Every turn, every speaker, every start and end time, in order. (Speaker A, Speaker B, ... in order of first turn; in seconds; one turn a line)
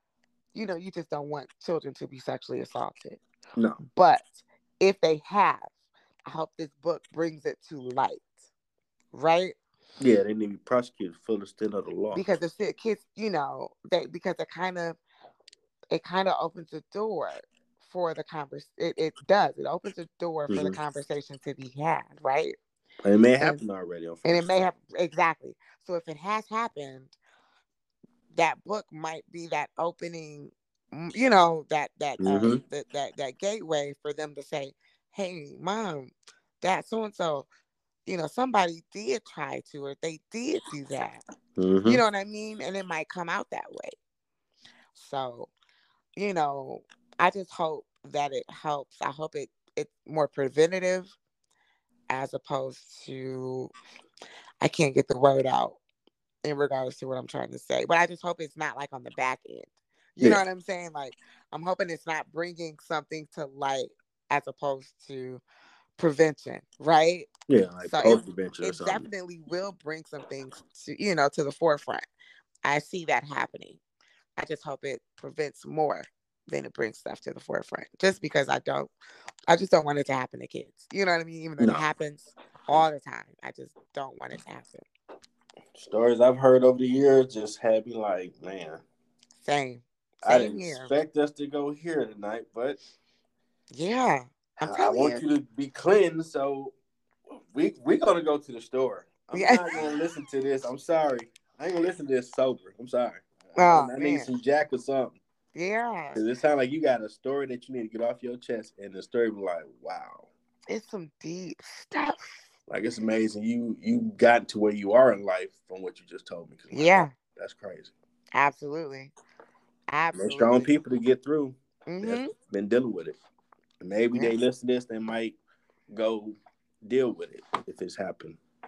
Speaker A: 0.5-3.2
Speaker A: 3.9-5.7
Speaker A: 6.2-8.4
Speaker A: 9.1-9.5
Speaker B: 10.0-12.2
Speaker A: 12.1-15.0
Speaker A: 15.9-22.6
Speaker B: 20.5-20.8
Speaker B: 23.0-24.4
Speaker A: 24.2-27.1
Speaker A: 28.3-37.5
Speaker B: 32.2-32.6
Speaker A: 38.0-41.2
Speaker B: 41.6-42.0
Speaker A: 41.9-44.0
Speaker A: 44.9-45.5
Speaker A: 46.1-51.1
Speaker A: 52.1-53.7
Speaker A: 54.6-55.8
Speaker A: 56.4-65.4
Speaker A: 66.0-67.3
Speaker B: 67.5-69.1
Speaker A: 67.8-72.0
Speaker A: 72.6-73.8
Speaker A: 74.4-78.9
Speaker A: 79.5-84.8
Speaker B: 85.7-88.8
Speaker A: 89.4-90.9
Speaker B: 90.2-92.8
Speaker A: 93.7-95.2
Speaker B: 94.6-96.7
Speaker B: 97.3-105.2
Speaker A: 99.3-99.7
Speaker A: 103.5-104.3
Speaker A: 105.5-106.2
Speaker B: 106.1-110.3
Speaker A: 110.7-112.4
Speaker B: 112.7-117.9
Speaker A: 116.7-117.1
Speaker A: 118.3-119.1
Speaker A: 119.9-120.7
Speaker B: 120.1-123.2
Speaker A: 121.9-122.3
Speaker B: 123.8-125.4
Speaker B: 125.9-128.4